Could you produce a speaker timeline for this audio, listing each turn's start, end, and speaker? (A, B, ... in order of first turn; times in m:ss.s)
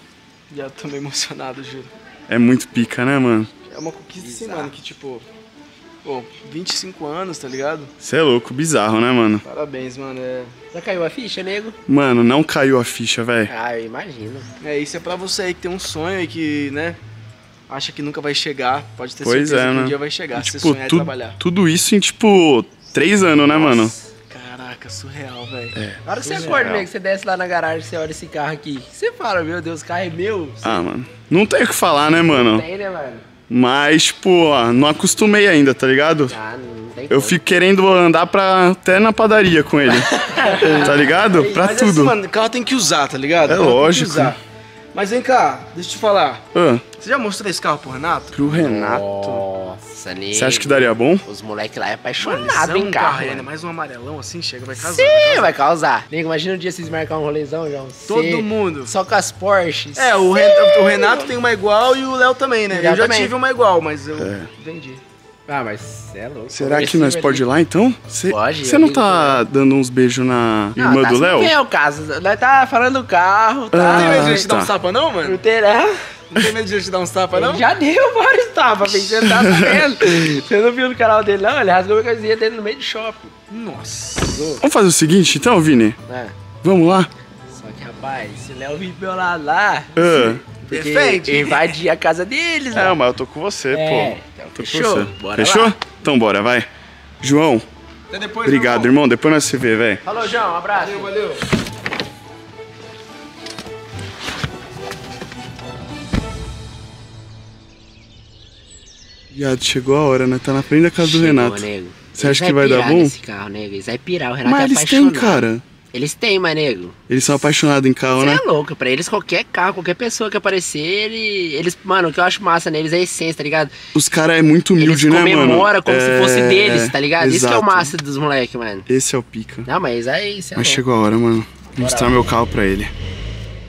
0:00.5-0:01.9 A
0:02.3-0:03.5 B
0:03.7-0:05.2 A
0:04.2-0:04.7 C
0:06.0-0:07.9 A
0:08.0-0:09.4 B
0:09.4-0:10.5 A
0:10.7-0:11.8 C
0:11.9-0:13.5 B
0:13.5-0:14.4 C
0:14.6-0:17.0 A
0:17.7-0:21.4 A
0:19.2-0:23.9 B
0:24.3-0:25.7 A
0:25.7-0:26.9 B
0:26.0-0:30.8 C
0:30.6-0:32.6 B
0:32.2-0:33.2 C
0:33.5-0:36.3 B
0:36.3-0:37.4 C
0:37.1-0:40.1 B
0:40.1-0:40.8 C
0:40.4-0:44.4 A
0:40.8-0:42.1 B
0:43.4-0:44.4 B
0:44.9-0:46.4 A
0:46.5-0:46.8 B
0:47.0-0:48.4 A
0:48.3-0:49.4 B
0:48.5-0:53.4 C
0:50.3-0:51.2 B
0:52.2-0:55.5 A
0:54.8-1:00.7 C
0:58.1-0:58.9 A
1:00.0-1:05.0 A
1:02.7-1:03.3 C
1:04.2-1:04.5 B
1:05.5-1:07.4 C
1:06.5-1:11.5 B
1:08.3-1:09.4 C
1:10.8-1:14.4 C
1:13.7-1:14.7 B
1:13.9-1:15.4 A
1:15.2-1:16.0 C
1:16.3-1:17.6 A
1:17.3-1:23.3 C
1:19.2-1:19.8 B
1:23.5-1:24.6 A
1:24.3-1:24.6 C
1:24.6-1:26.0 B
1:26.1-1:26.3 C
1:26.6-1:27.1 B
1:27.5-1:33.0 C
1:29.9-1:30.4 B
1:30.7-1:31.7 A
1:32.7-1:36.7 B
1:33.7-1:35.8 C
1:37.2-1:37.6 B
1:38.1-1:38.9 A
1:38.4-1:40.0 B
1:40.0-1:41.1 C
1:40.8-1:41.4 A
1:49.3-1:53.1 B
1:51.0-1:56.9 C
1:54.4-1:55.6 B
1:57.1-1:58.4 B
1:58.1-2:03.7 C
2:03.9-2:07.9 B
2:04.8-2:08.8 C
2:08.9-2:09.7 B
2:09.6-2:10.8 C
2:10.6-2:12.9 B
2:11.8-2:12.1 C